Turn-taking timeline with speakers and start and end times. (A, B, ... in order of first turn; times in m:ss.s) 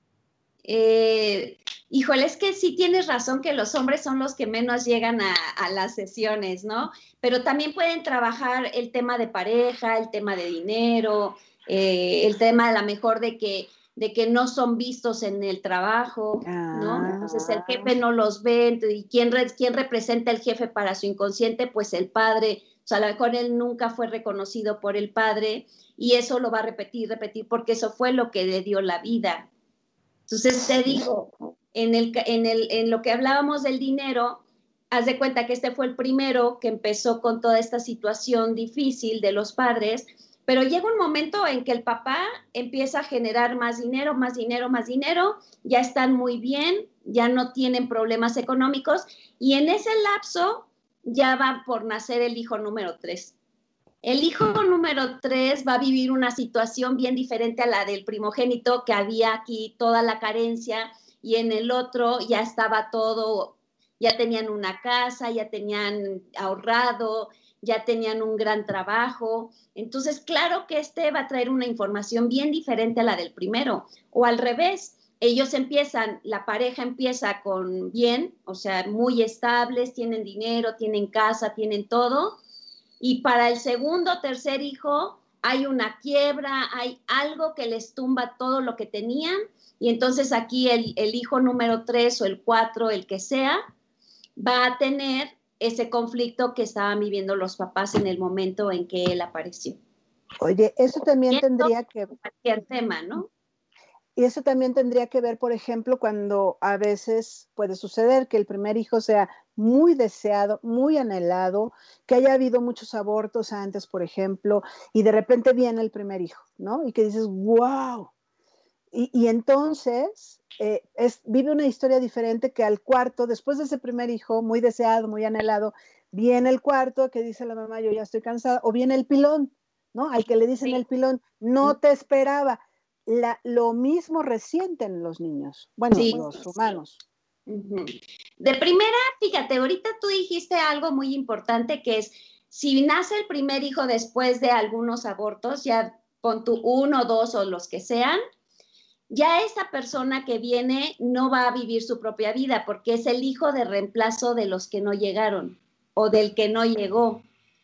0:00.7-0:29.5 A
0:16.4-0:17.9 B
0:30.3-0:31.1 A
0:31.7-0:53.4 A
0:54.0-1:22.4 A
1:23.0-1:33.6 A
1:34.4-1:39.8 A
1:40.4-1:42.1 B
1:41.3-1:43.3 A
1:44.2-1:58.1 B
1:58.9-2:17.0 B
2:15.9-2:16.8 A
2:17.5-2:28.2 A
2:29.1-2:37.2 A